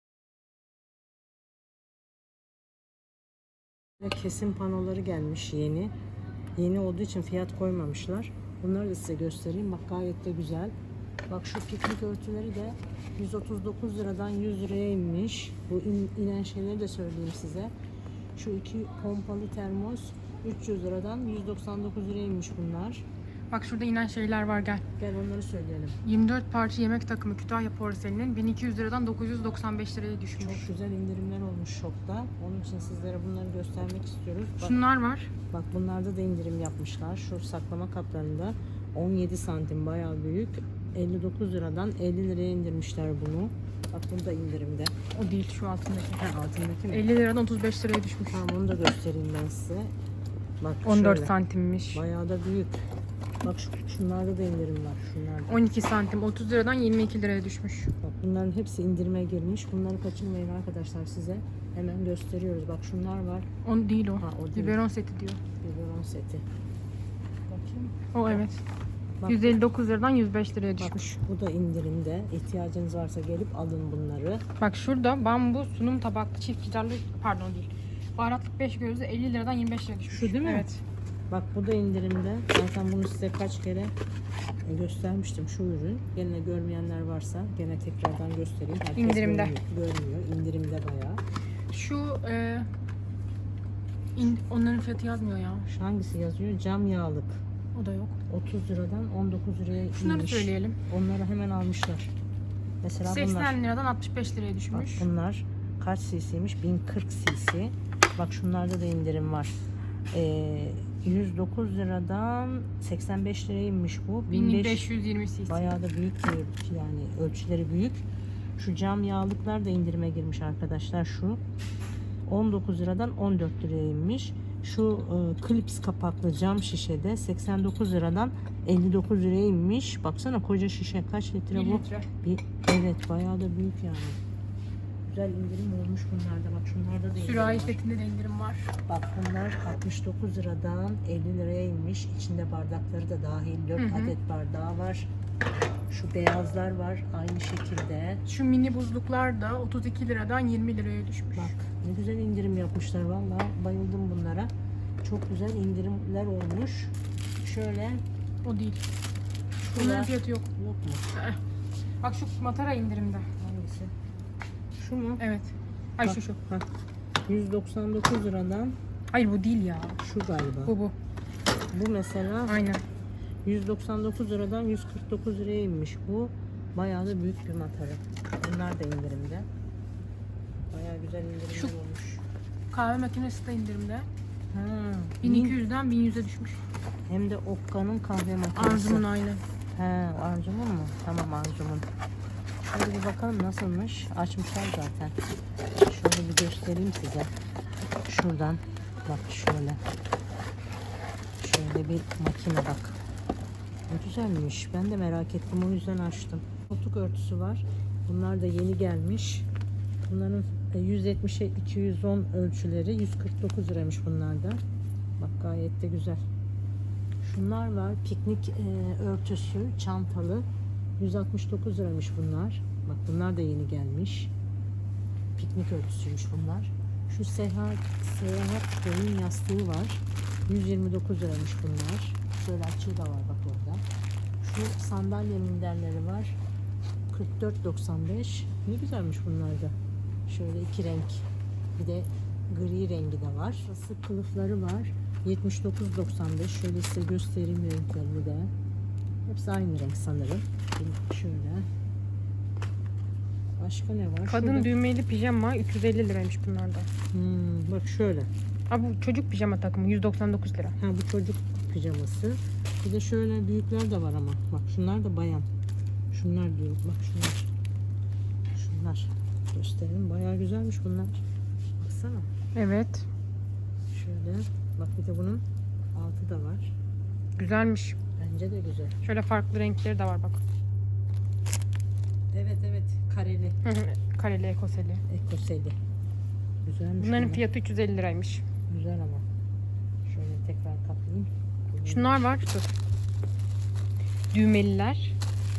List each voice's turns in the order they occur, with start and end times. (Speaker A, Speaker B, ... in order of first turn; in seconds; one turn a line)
Speaker A: 4.0-5.9
Speaker A: 6.6-10.7
Speaker A: 11.3-17.7
Speaker A: 18.4-23.1
Speaker B: 23.5-24.9
Speaker A: 25.0-26.0
Speaker B: 26.0-30.7
Speaker A: 30.4-34.8
Speaker B: 34.6-35.3
Speaker A: 35.5-45.0
Speaker B: 45.1-46.3
Speaker A: 46.2-47.0
Speaker B: 46.9-48.5
Speaker A: 48.3-49.9
Speaker A: 50.6-51.3
Speaker B: 50.9-52.0
Speaker A: 51.9-52.9
Speaker A: 53.4-55.6
Speaker B: 55.5-57.9
Speaker A: 58.0-63.5
Speaker B: 63.6-65.4
Speaker A: 64.2-64.8
Speaker A: 65.6-66.4
Speaker A: 67.5-68.4
Speaker B: 68.1-68.6
Speaker A: 69.2-69.6
Speaker B: 69.2-71.2
Speaker A: 70.8-74.4
Speaker B: 74.6-80.8
Speaker A: 80.1-80.7
Speaker A: 81.3-83.9
Speaker A: 84.6-91.2
Speaker B: 88.9-89.6
Speaker B: 91.7-92.7
Speaker B: 94.1-95.7
Speaker A: 95.6-97.4
Speaker B: 97.7-98.2
Speaker A: 98.3-102.1
Speaker B: 99.9-100.8
Speaker A: 102.8-103.6
Speaker B: 103.0-105.1
Speaker A: 104.7-109.6
Speaker A: 110.1-114.9
Speaker B: 114.3-115.7
Speaker A: 115.5-118.0
Speaker A: 118.6-121.4
Speaker A: 122.2-134.2
Speaker B: 131.5-132.1
Speaker A: 135.1-137.8
Speaker B: 137.2-138.7
Speaker A: 138.8-145.1
Speaker B: 143.8-144.1
Speaker A: 145.9-148.2
Speaker B: 148.2-151.5
Speaker A: 151.3-154.5
Speaker A: 155.0-158.0
Speaker B: 158.4-158.8
Speaker A: 159.6-161.1
Speaker B: 159.8-160.5
Speaker B: 161.1-161.4
Speaker B: 162.0-163.3
Speaker A: 163.4-163.9
Speaker A: 164.8-165.2
Speaker B: 165.2-166.4
Speaker A: 166.0-166.7
Speaker A: 167.3-168.8
Speaker B: 169.1-170.0
Speaker A: 170.0-170.8
Speaker B: 170.7-170.9
Speaker A: 171.7-172.7
Speaker B: 172.5-172.8
Speaker A: 173.4-179.5
Speaker A: 180.7-182.2
Speaker B: 182.7-184.1
Speaker A: 184.5-185.6
Speaker B: 185.2-186.6
Speaker A: 187.1-189.1
Speaker B: 188.5-189.4
Speaker A: 189.7-191.9
Speaker A: 192.7-195.2
Speaker A: 195.8-197.3
Speaker A: 198.0-199.8
Speaker A: 201.4-203.0
Speaker A: 203.9-209.5
Speaker A: 210.0-214.6
Speaker A: 215.2-216.2
Speaker A: 217.2-220.4
Speaker A: 221.0-224.3
Speaker A: 225.4-233.8
Speaker A: 234.4-236.4
Speaker A: 237.1-239.8
Speaker A: 240.3-248.5
Speaker A: 249.2-251.7
Speaker A: 253.6-254.7
Speaker B: 254.3-256.9
Speaker A: 257.1-258.3
Speaker B: 258.7-260.8
Speaker A: 260.8-265.5
Speaker A: 266.1-267.4
Speaker A: 268.5-271.2
Speaker A: 271.8-272.3
Speaker B: 272.5-273.1
Speaker A: 273.9-276.7
Speaker B: 277.4-278.0
Speaker A: 278.2-279.0
Speaker B: 279.0-280.4
Speaker A: 282.3-283.6
Speaker B: 283.6-285.0
Speaker A: 285.1-285.8
Speaker A: 286.6-287.4
Speaker B: 287.0-288.4
Speaker A: 288.7-289.2
Speaker A: 290.1-292.2
Speaker B: 291.8-292.7
Speaker B: 294.3-295.1